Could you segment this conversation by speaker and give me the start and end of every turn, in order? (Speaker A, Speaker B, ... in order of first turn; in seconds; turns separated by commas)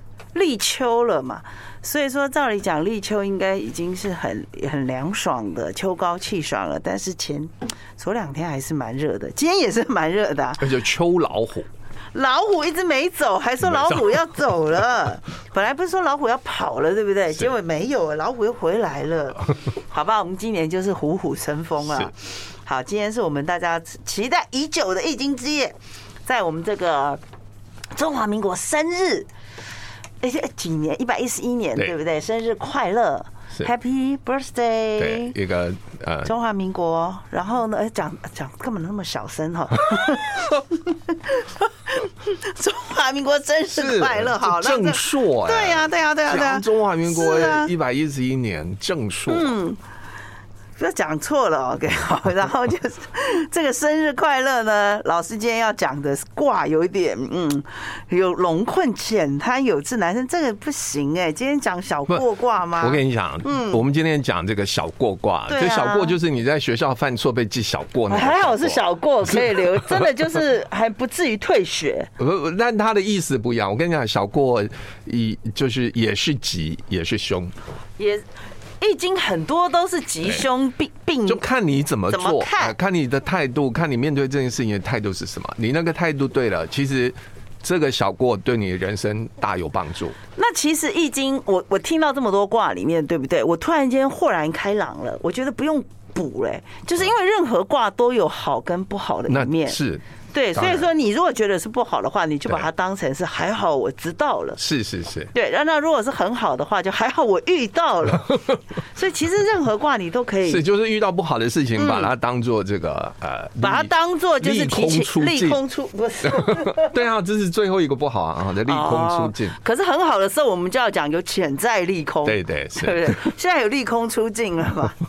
Speaker A: 0.3-10.7, Speaker B: 10.6-11.7, Speaker A: 12.1-25.7, Speaker B: 13.6-14.3, Speaker A: 26.2-27.2, Speaker A: 27.9-29.3, Speaker A: 30.2-35.3, Speaker B: 35.0-36.3, Speaker A: 36.2-47.7, Speaker B: 43.7-49.5, Speaker A: 49.3-49.8, Speaker A: 50.8-63.8, Speaker B: 62.8-70.2, Speaker A: 65.5-66.2, Speaker A: 68.1-72.1, Speaker B: 72.2-77.5, Speaker A: 78.0-78.2, Speaker A: 78.8-81.4, Speaker B: 81.2-90.2, Speaker A: 82.1-82.7, Speaker A: 90.3-99.8, Speaker B: 99.3-100.0, Speaker A: 100.3-104.6, Speaker B: 100.5-100.9, Speaker B: 104.6-105.3, Speaker A: 105.3-110.6, Speaker B: 108.3-108.5, Speaker B: 110.4-115.6, Speaker A: 111.8-112.1, Speaker A: 113.6-117.0, Speaker B: 116.2-119.6, Speaker A: 118.7-125.0, Speaker B: 122.2-123.3